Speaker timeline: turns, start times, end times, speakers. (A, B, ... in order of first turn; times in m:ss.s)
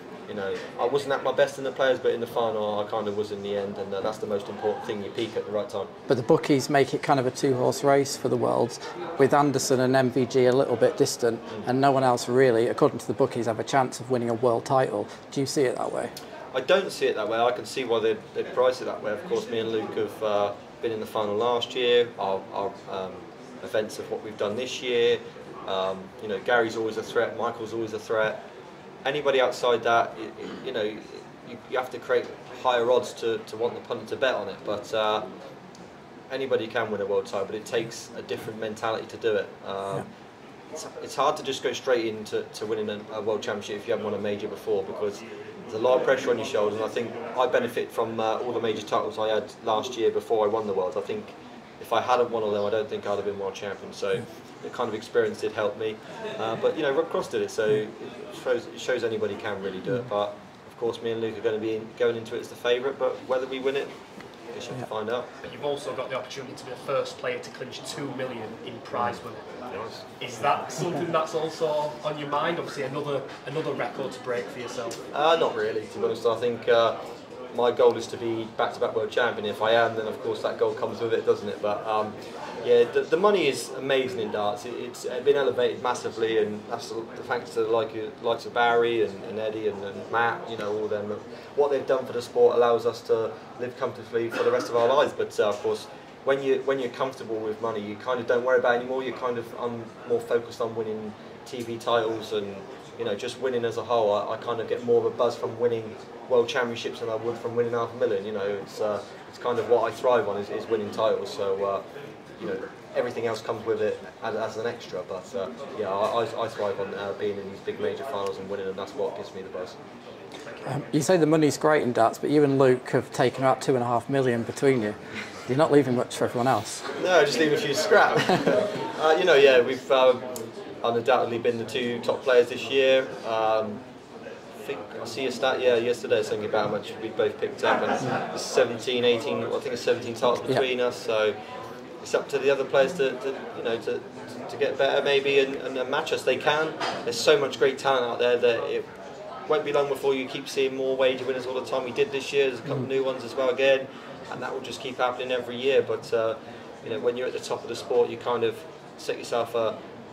0:00.3-0:05.9 A
0:06.1-0:16.1 B
0:16.5-0:28.4 A
0:29.0-0:35.3 A
0:36.3-0:40.1 A
0:40.7-1:03.9 A
1:04.5-1:05.3 A
1:05.4-1:09.4 C
1:09.7-1:10.0 A
1:10.2-1:15.0 C
1:15.1-1:17.0 A
1:17.5-1:51.8 A
1:52.4-1:59.8 A
2:00.6-2:06.9 B
2:07.0-2:10.2 A
2:10.8-2:13.8 A
2:14.6-2:21.4 A
2:22.0-2:28.9 A
2:29.5-2:39.8 A